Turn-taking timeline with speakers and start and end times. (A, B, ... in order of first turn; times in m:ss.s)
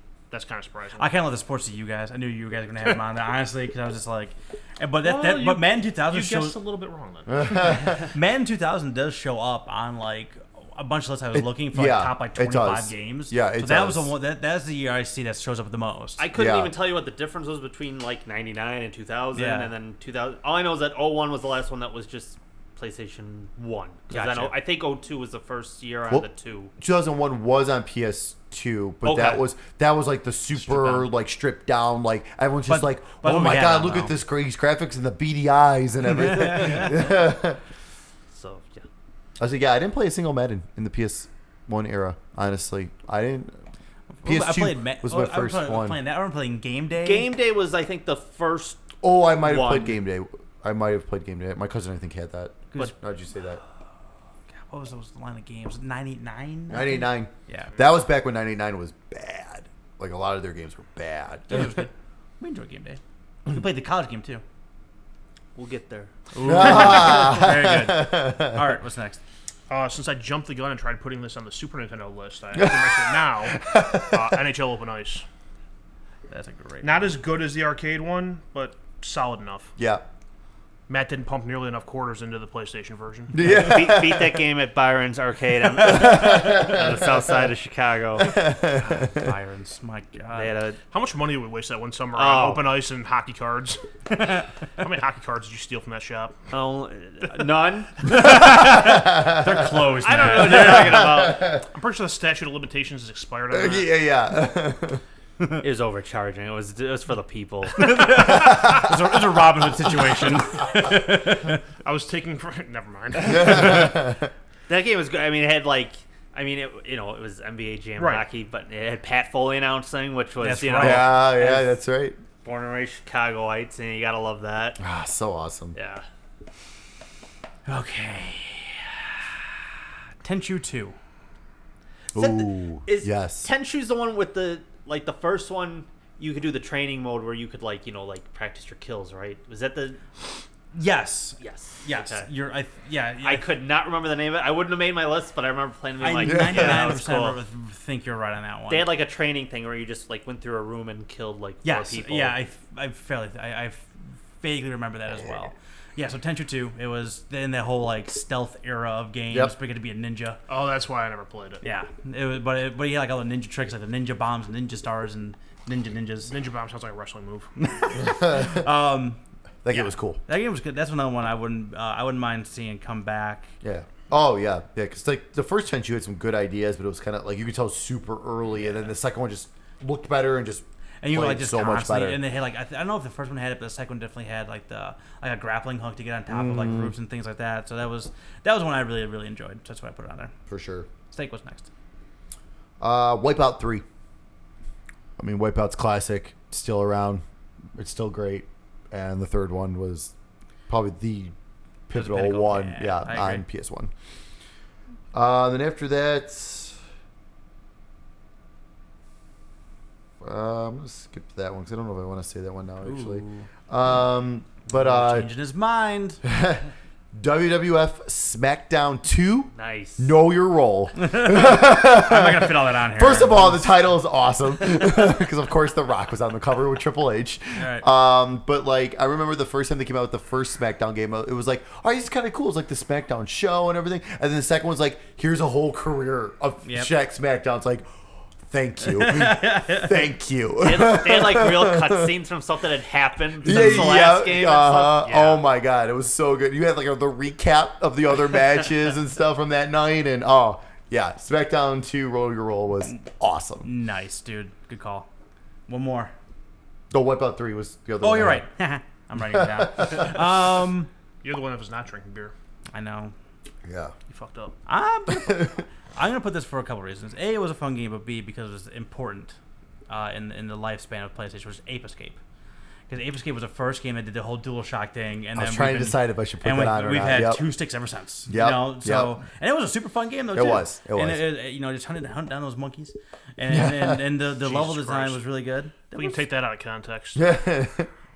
0:00.3-0:01.1 A
0:01.0-0:06.6 B
0:05.0-0:07.9 A
0:07.3-0:08.0 C
0:08.1-0:16.2 B
0:11.3-0:14.1 C
0:16.2-0:26.7 D
0:16.3-0:16.8 C
0:19.3-0:19.7 B
0:24.1-0:24.6 B
0:26.8-0:37.6 C
0:29.0-0:29.5 D
0:32.7-0:34.1 B
0:36.2-0:36.9 B
0:38.3-0:38.8 D
0:39.4-0:43.6 C
0:44.2-0:47.3 B
0:44.2-0:46.0 C
0:47.0-0:49.9 D
0:49.0-0:53.6 C
0:54.7-0:57.7 B
0:56.7-1:01.8 C
1:01.5-1:04.4 B
1:05.5-1:06.1 D
1:06.3-1:09.2 B
1:06.4-1:08.6 C
1:09.7-1:15.2 A
1:12.5-1:14.4 C
1:16.3-1:17.2 B
1:16.8-1:19.7 A
1:19.8-1:20.0 C
1:20.9-1:23.3 A
1:23.3-1:24.4 C
1:23.4-1:28.4 D
1:25.8-1:27.2 C
1:28.2-1:29.3 C
1:28.8-1:30.5 B
1:30.3-1:30.8 D
1:30.9-1:33.8 A
1:32.1-1:32.7 D
1:34.8-1:36.4 A
1:36.5-1:38.1 D
1:38.0-1:41.0 B
1:38.9-1:39.5 C
1:40.0-1:41.6 D
1:40.1-1:43.9 A
1:40.8-1:41.6 C
1:43.5-1:45.0 C
1:45.6-1:48.5 D
1:47.8-1:51.6 B
1:51.8-1:53.9 A
1:53.2-1:54.3 C
1:54.7-2:01.7 D
1:58.0-1:58.2 A
2:00.4-2:01.2 B
2:00.8-2:02.2 C
2:02.4-2:04.8 D
2:04.8-2:05.8 C
2:05.7-2:06.0 D
2:07.6-2:08.8 B
2:10.2-2:11.0 B
2:12.1-2:13.5 C
2:12.1-2:20.0 D
2:20.7-2:23.5 B
2:21.4-2:22.3 D
2:23.2-2:27.4 D
2:26.0-2:28.9 B
2:26.2-2:26.9 C
2:28.7-2:32.4 D
2:31.6-2:40.4 B
2:40.5-2:41.6 A
2:41.6-2:46.3 B
2:46.3-2:47.5 A
2:47.6-2:49.2 B
2:48.2-2:48.6 C
2:49.6-2:50.2 C
2:49.7-2:53.5 B
2:53.6-3:02.2 C
3:01.0-3:10.3 B
3:06.3-3:06.9 C
3:10.5-3:10.9 C
3:11.1-3:11.7 B
3:12.8-3:13.8 C
3:15.2-3:17.2 C
3:17.8-3:20.1 C
3:20.7-3:21.3 C
3:21.9-3:23.9 C
3:21.9-3:23.4 B
3:25.1-3:26.8 C
3:30.2-3:35.3 C
3:32.8-3:33.5 B
3:34.7-3:36.2 B
3:36.2-3:57.9 C
3:39.5-3:40.1 D
3:41.0-3:43.6 B
3:47.6-3:47.8 B
3:56.6-3:56.9 B
3:58.4-4:02.1 C
3:58.8-3:59.9 B
4:00.6-4:05.4 D
4:03.4-4:13.7 C
4:03.4-4:03.9 B
4:13.6-4:15.1 B
4:15.7-4:16.1 B
4:16.9-4:18.5 C
4:18.0-4:20.9 B
4:19.2-4:20.1 C
4:21.2-4:22.3 A
4:22.7-4:23.1 B
4:23.6-4:23.9 C
4:24.1-4:24.6 A
4:24.7-4:29.4 B
4:29.9-4:32.2 B
4:32.9-4:46.2 B
4:35.4-4:37.5 C
4:38.3-4:39.2 C
4:40.3-4:41.3 C
4:43.5-4:44.0 C
4:44.4-4:45.2 A
4:45.9-4:47.2 A
4:47.1-4:47.9 C